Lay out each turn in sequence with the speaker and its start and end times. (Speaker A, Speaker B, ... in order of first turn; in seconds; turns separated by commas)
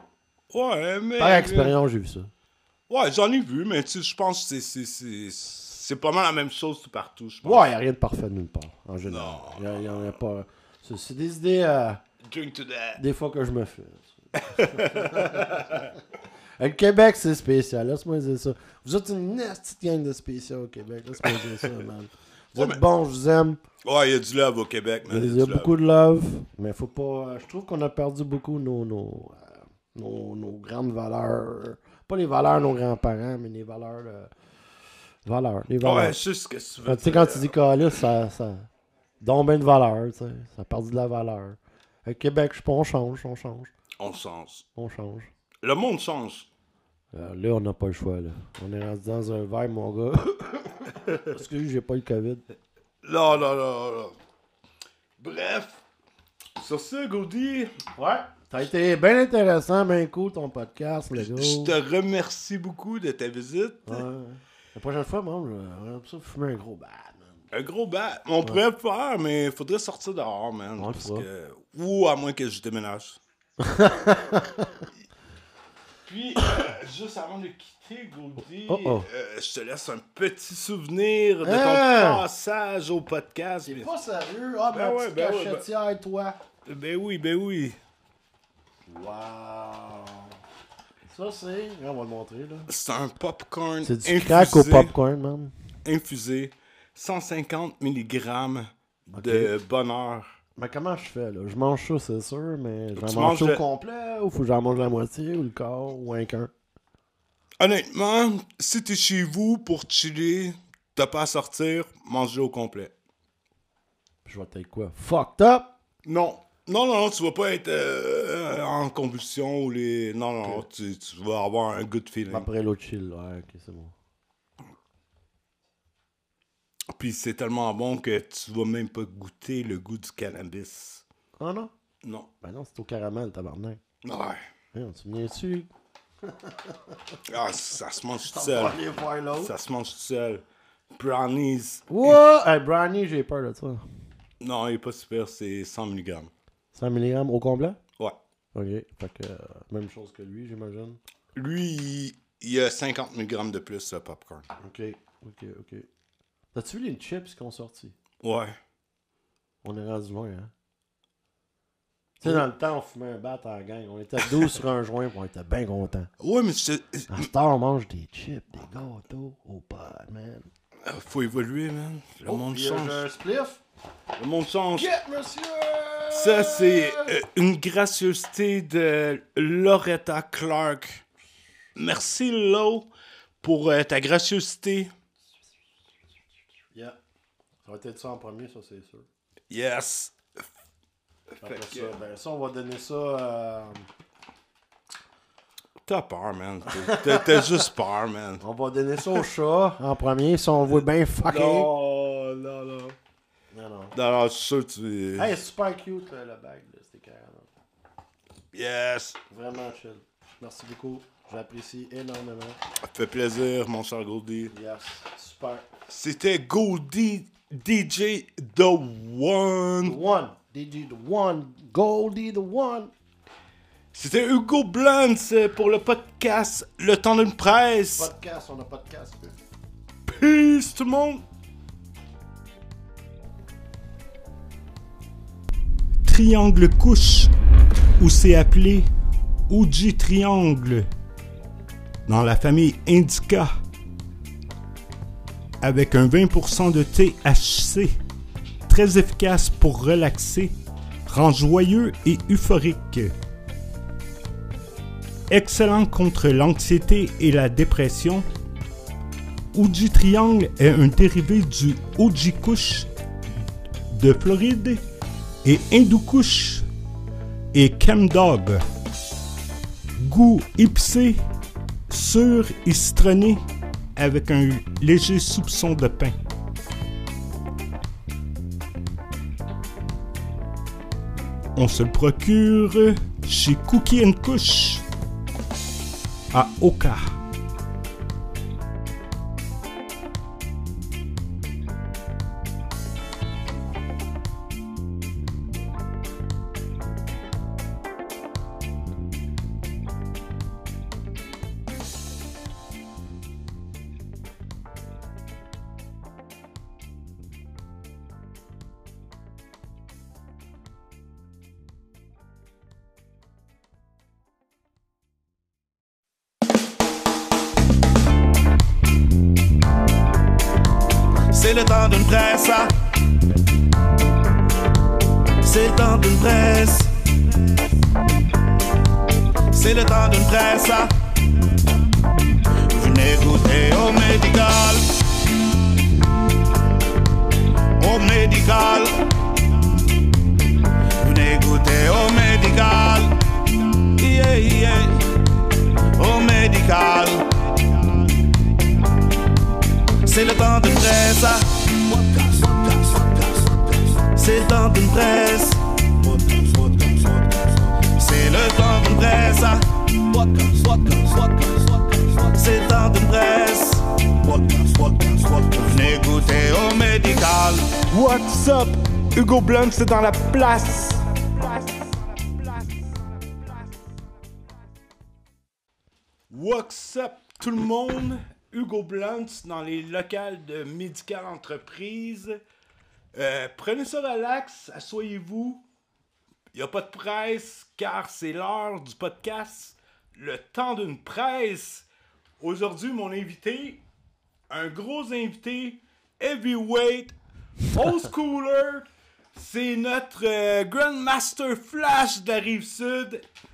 Speaker A: 0.5-1.8, Speaker B: 1.2-2.3, Speaker A: 2.9-7.7, Speaker B: 7.4-12.0, Speaker A: 9.1-10.1, Speaker A: 12.2-13.0, Speaker B: 13.0-16.0, Speaker A: 14.3-15.9, Speaker B: 16.6-23.6, Speaker A: 23.8-25.7, Speaker B: 25.1-34.3, Speaker B: 35.2-36.2, Speaker A: 35.8-38.0, Speaker B: 36.8-38.7, Speaker B: 39.2-43.7, Speaker A: 44.0-44.6, Speaker B: 44.8-45.3, Speaker A: 45.6-46.5, Speaker B: 47.1-52.4, Speaker A: 53.0-54.1, Speaker A: 55.2-55.8, Speaker A: 56.5-57.7, Speaker B: 58.0-61.8, Speaker A: 61.1-64.0, Speaker B: 63.9-67.4, Speaker A: 67.5-73.2, Speaker B: 70.8-71.3, Speaker B: 73.6-74.9, Speaker A: 76.0-83.9, Speaker B: 78.7-79.1, Speaker B: 81.4-82.2, Speaker B: 83.6-86.4, Speaker A: 84.7-85.6, Speaker A: 86.7-87.8, Speaker B: 88.8-90.4, Speaker B: 91.1-92.7, Speaker A: 92.7-94.9, Speaker B: 93.8-95.5, Speaker A: 95.8-100.4, Speaker B: 99.1-99.5, Speaker B: 100.5-106.5, Speaker A: 103.0-103.6, Speaker A: 107.6-112.9, Speaker B: 114.2-115.8, Speaker A: 116.0-122.5, Speaker B: 122.3-123.9, Speaker A: 126.9-131.0, Speaker B: 131.4-131.7, Speaker A: 132.0-132.3, Speaker B: 132.4-133.8, Speaker A: 134.0-134.4, Speaker B: 134.7-135.7, Speaker B: 136.2-137.2, Speaker A: 137.2-138.8, Speaker B: 138.2-139.5, Speaker A: 139.4-140.4, Speaker A: 140.9-142.2, Speaker B: 141.9-143.8, Speaker A: 144.4-146.3, Speaker B: 146.7-147.8, Speaker B: 148.5-151.0, Speaker A: 151.3-154.5, Speaker B: 154.6-155.9, Speaker B: 156.5-157.9, Speaker A: 158.2-158.6, Speaker B: 159.6-160.5, Speaker B: 162.2-166.1, Speaker A: 166.2-167.3, Speaker B: 167.1-170.5, Speaker A: 170.8-173.1, Speaker B: 172.2-173.6, Speaker A: 174.2-174.9, Speaker B: 174.8-177.2, Speaker A: 176.1-181.0, Speaker A: 181.8-182.9, Speaker A: 183.4-184.9, Speaker B: 187.6-189.1, Speaker A: 189.5-190.5, Speaker A: 191.3-191.9, Speaker B: 191.4-193.9, Speaker A: 195.8-198.4, Speaker B: 196.7-197.7, Speaker B: 198.4-201.7, Speaker A: 199.0-199.3, Speaker A: 200.7-203.0, Speaker B: 203.5-203.9, Speaker A: 203.9-205.4, Speaker B: 205.2-207.5, Speaker A: 208.5-209.2, Speaker B: 209.3-212.6, Speaker A: 212.8-214.5, Speaker B: 214.5-215.7, Speaker A: 215.9-219.9, Speaker B: 219.8-222.9, Speaker A: 223.9-228.1, Speaker B: 227.9-229.4, Speaker A: 230.1-231.2, Speaker A: 236.0-237.3, Speaker A: 238.0-238.9, Speaker A: 239.5-240.9, Speaker A: 242.1-243.6, Speaker A: 245.6-247.9, Speaker A: 248.7-250.5, Speaker A: 251.1-253.1, Speaker A: 255.3-258.3, Speaker A: 259.5-262.9, Speaker A: 263.9-264.8, Speaker A: 265.4-266.7, Speaker A: 267.5-268.6, Speaker A: 270.0-271.2, Speaker A: 271.9-273.4, Speaker A: 273.9-276.2, Speaker A: 281.6-284.8, Speaker A: 286.3-287.2, Speaker C: 321.3-322.7, Speaker C: 325.4-326.9, Speaker C: 329.5-330.9, Speaker C: 332.6-335.1, Speaker C: 337.8-339.0, Speaker C: 341.0-343.2, Speaker C: 343.9-345.1, Speaker C: 345.9-347.7, Speaker C: 350.0-367.8, Speaker A: 367.9-371.2, Speaker C: 371.7-371.9, Speaker A: 376.3-382.4, Speaker A: 383.1-385.6, Speaker A: 386.5-391.9, Speaker A: 392.4-393.8, Speaker A: 394.5-403.2